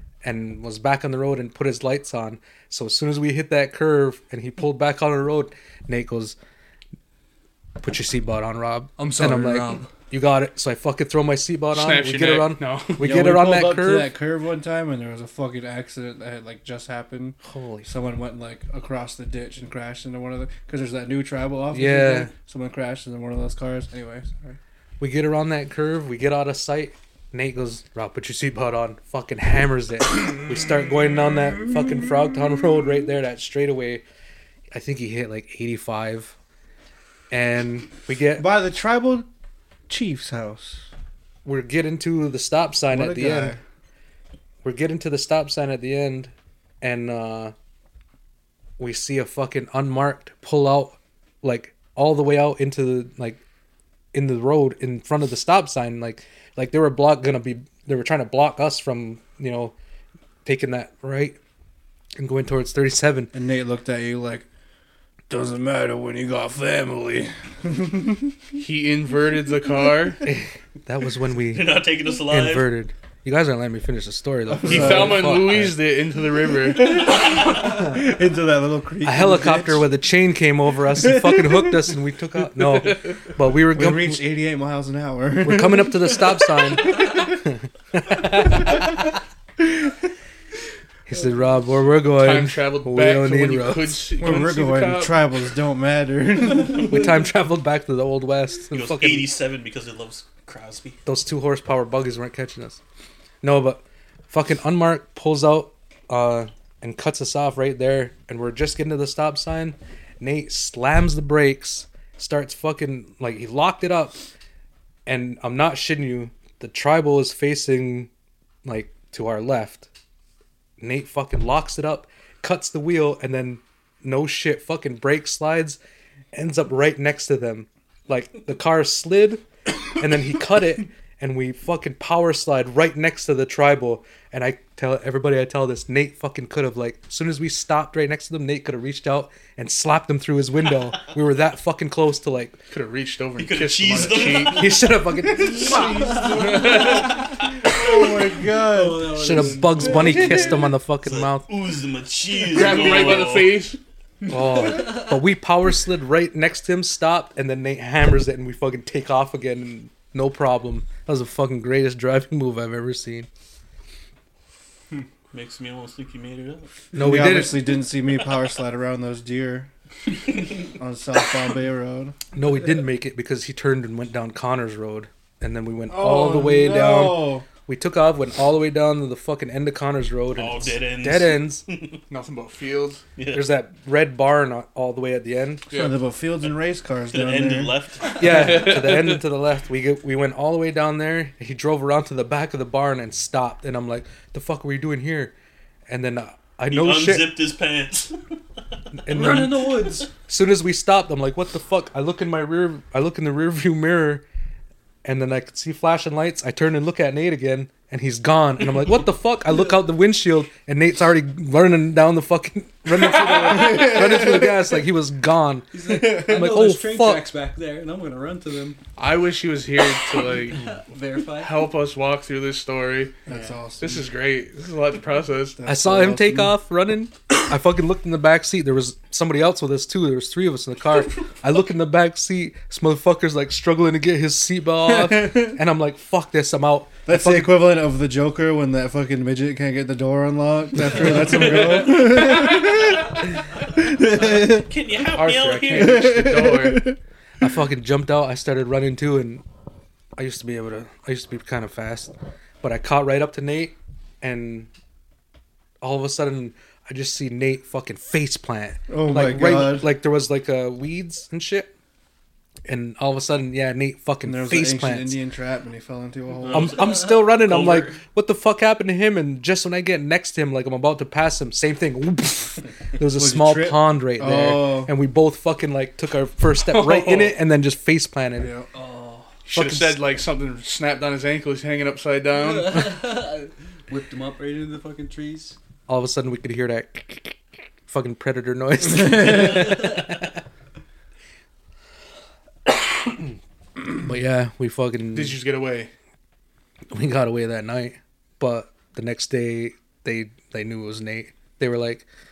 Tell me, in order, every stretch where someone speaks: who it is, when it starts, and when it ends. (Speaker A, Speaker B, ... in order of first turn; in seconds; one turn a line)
Speaker A: 0.2-6.3
Speaker A: 7.8-14.1
Speaker B: 9.0-9.9
Speaker C: 11.7-13.2
Speaker D: 13.0-24.6
Speaker A: 17.4-17.9
Speaker A: 21.7-22.3
Speaker A: 25.0-34.0
Speaker A: 34.7-36.3
Speaker A: 37.3-38.5
Speaker D: 38.4-39.3
Speaker D: 39.9-40.9
Speaker A: 41.4-43.5
Speaker D: 42.9-43.6
Speaker A: 44.6-47.5
Speaker A: 48.8-53.4
Speaker A: 54.1-59.7
Speaker A: 60.4-61.4
Speaker A: 62.2-63.3
Speaker D: 63.3-64.5
Speaker D: 65.3-68.3
Speaker C: 68.5-70.2
Speaker A: 70.2-75.8
Speaker E: 71.5-72.7
Speaker D: 74.6-75.3
Speaker C: 74.6-77.1
Speaker D: 76.7-79.9
Speaker A: 79.0-84.2
Speaker D: 81.0-81.7
Speaker D: 83.7-86.3
Speaker A: 85.4-89.1
Speaker A: 91.0-94.0
Speaker C: 92.1-95.2
Speaker D: 94.2-96.9
Speaker A: 96.8-99.3
Speaker E: 98.7-101.0
Speaker A: 101.0-102.8
Speaker A: 103.4-114.2
Speaker A: 115.0-118.1
Speaker A: 118.6-119.9
Speaker A: 120.8-125.8
Speaker A: 126.3-142.6
Speaker C: 142.7-144.7
Speaker E: 143.4-144.8
Speaker A: 144.4-146.0
Speaker D: 145.3-149.4
Speaker B: 145.6-147.0
Speaker C: 145.7-147.2
Speaker B: 148.6-150.6
Speaker A: 149.1-151.5
Speaker D: 150.0-150.5
Speaker E: 151.0-153.6
Speaker C: 152.5-153.8
Speaker A: 154.3-163.3
Speaker E: 165.3-166.8
Speaker A: 166.9-167.7
Speaker D: 166.9-169.7
Speaker D: 170.8-172.2
Speaker A: 172.3-181.6
Speaker D: 175.9-177.5
Speaker E: 180.3-182.0
Speaker C: 182.1-183.0
Speaker E: 183.2-183.4
Speaker A: 183.3-185.6
Speaker C: 185.7-186.0
Speaker D: 185.7-187.7
Speaker E: 187.1-188.2
Speaker A: 188.1-195.3
Speaker C: 188.1-189.2
Speaker A: 195.9-197.3
Speaker E: 196.7-198.2
Speaker A: 198.9-204.2
Speaker B: 199.1-200.1
Speaker A: 205.0-217.3
Speaker D: 213.5-214.5
Speaker B: 215.7-218.8
Speaker D: 216.0-216.4
Speaker C: 219.0-220.6
Speaker B: 220.5-221.5
Speaker C: 221.4-223.1
Speaker D: 223.2-224.1
Speaker B: 223.3-223.6
Speaker C: 223.8-225.6
Speaker D: 225.6-226.5
Speaker A: 225.7-237.5
Speaker D: 234.8-235.6
Speaker D: 237.1-243.1
Speaker A: 241.0-242.0
Speaker D: 243.8-244.7
Speaker E: 244.1-246.0
Speaker A: 245.2-246.1
Speaker C: 245.2-246.9
Speaker D: 245.7-247.0
Speaker A: 247.4-249.4
Speaker A: 250.2-254.7
Speaker A: 255.8-261.7
Speaker D: 258.9-259.9
Speaker A: 262.6-265.2
Speaker D: 264.2-266.9
Speaker E: 266.4-268.0
Speaker A: 266.5-278.5
Speaker D: 273.1-274.9
Speaker C: 276.7-277.3
Speaker D: 278.4-278.6
Speaker B: 278.7-279.3
Speaker C: 279.4-283.0
Speaker A: 279.5-280.0
Speaker B: 282.4-285.6
Speaker A: 285.9-290.4
Speaker A: 292.7-293.3
Speaker A: 293.9-295.4
Speaker C: 295.1-295.9
Speaker A: 296.9-302.1